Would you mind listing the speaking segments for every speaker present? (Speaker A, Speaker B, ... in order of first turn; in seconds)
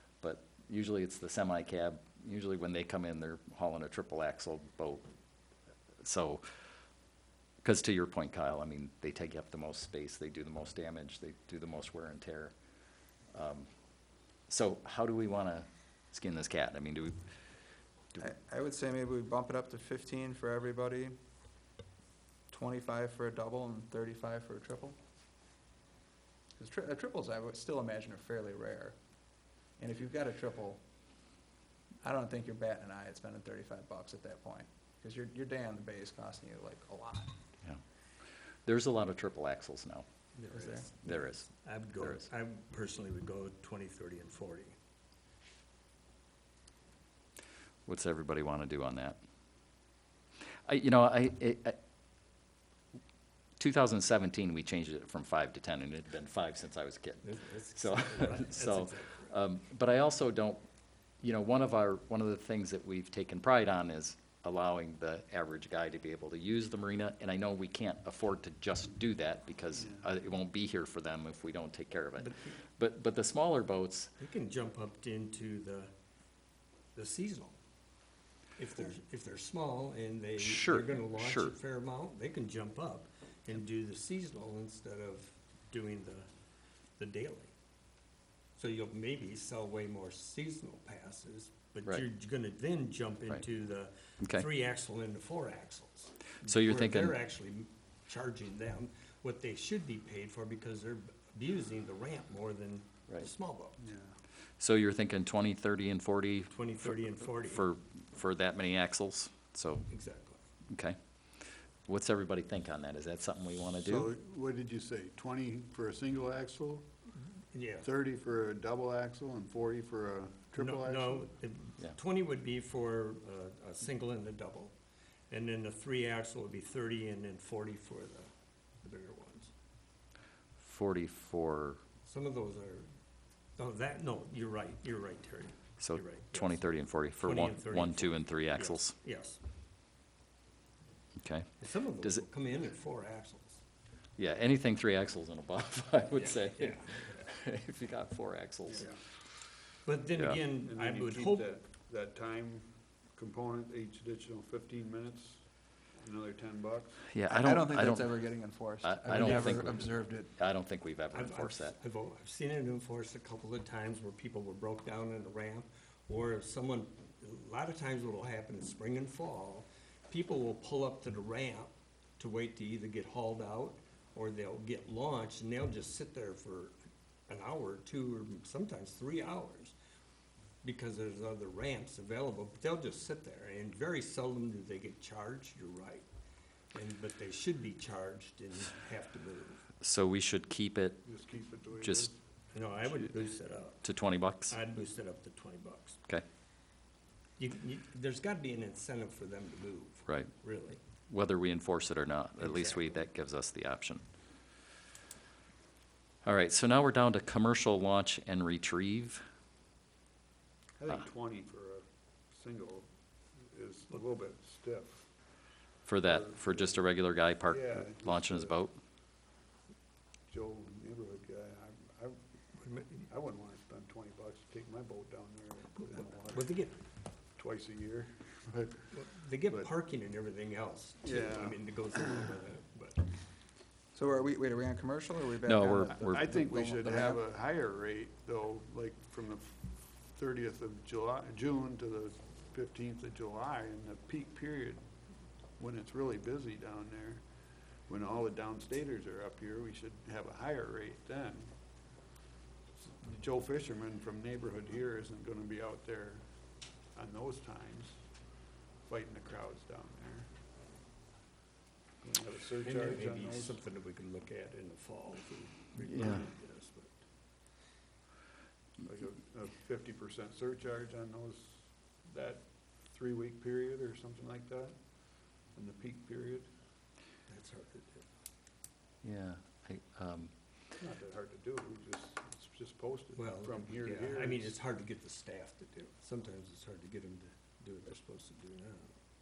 Speaker A: 0.2-5.0, 6.0-6.4, 7.6-12.5, 13.3-13.7, 14.5-17.2, 38.6-40.1, 41.0-42.3, 47.9-49.2, 50.7-51.8, 53.6-60.6, 61.2-74.1, 80.4-81.5, 94.2-94.5, 96.4-97.2, 104.6-109.9, 110.7-111.3, 111.9-114.1, 130.6-131.8, 135.8-138.9, 141.2-142.2, 144.2-148.9, 150.2-150.4, 157.1-158.2, 158.8-161.8, 189.8-191.0, 191.8-192.1, 193.8-194.6, 201.1-204.0, 206.2-209.2, 215.8-218.8, 235.5-236.3, 265.9-266.2, 279.0-280.3
Speaker B: 18.2-21.1, 22.5-24.9, 26.6-29.0, 29.8-30.8, 32.0-37.4, 40.5-40.9, 157.3-160.3, 233.9-237.2
Speaker C: 40.4-44.7, 57.2-59.3, 72.2-72.5, 74.2-75.9, 76.9-77.5, 78.6-86.3, 87.0-87.5, 88.6-103.8, 106.5-107.7, 109.9-110.4, 117.5-117.9, 120.6-124.7, 125.3-128.3, 128.8-129.5, 132.1-132.9, 133.6-139.4, 141.6-143.6, 146.2-147.2, 149.8-151.5, 161.1-176.8, 177.3-179.8, 180.6-186.1, 186.7-189.7, 192.5-193.9, 194.5-196.0, 197.4-200.8, 202.4-202.9, 222.6-223.0, 225.9-226.8, 228.9-233.2, 262.6-267.0, 277.3-278.0, 283.1-288.9
Speaker D: 103.8-104.2, 113.8-116.9, 117.8-121.3, 148.7-148.9, 150.6-157.1, 191.0-192.1, 210.8-212.9, 213.5-215.1, 216.0-216.8, 217.5-218.6, 220.3-222.2, 223.0-226.6, 227.4-228.9, 231.0-231.6, 235.9-244.8, 245.6-247.2, 247.9-251.5, 252.8-256.2, 256.9-258.0, 258.8-260.3, 262.0-263.6, 268.8-276.5, 280.8-284.6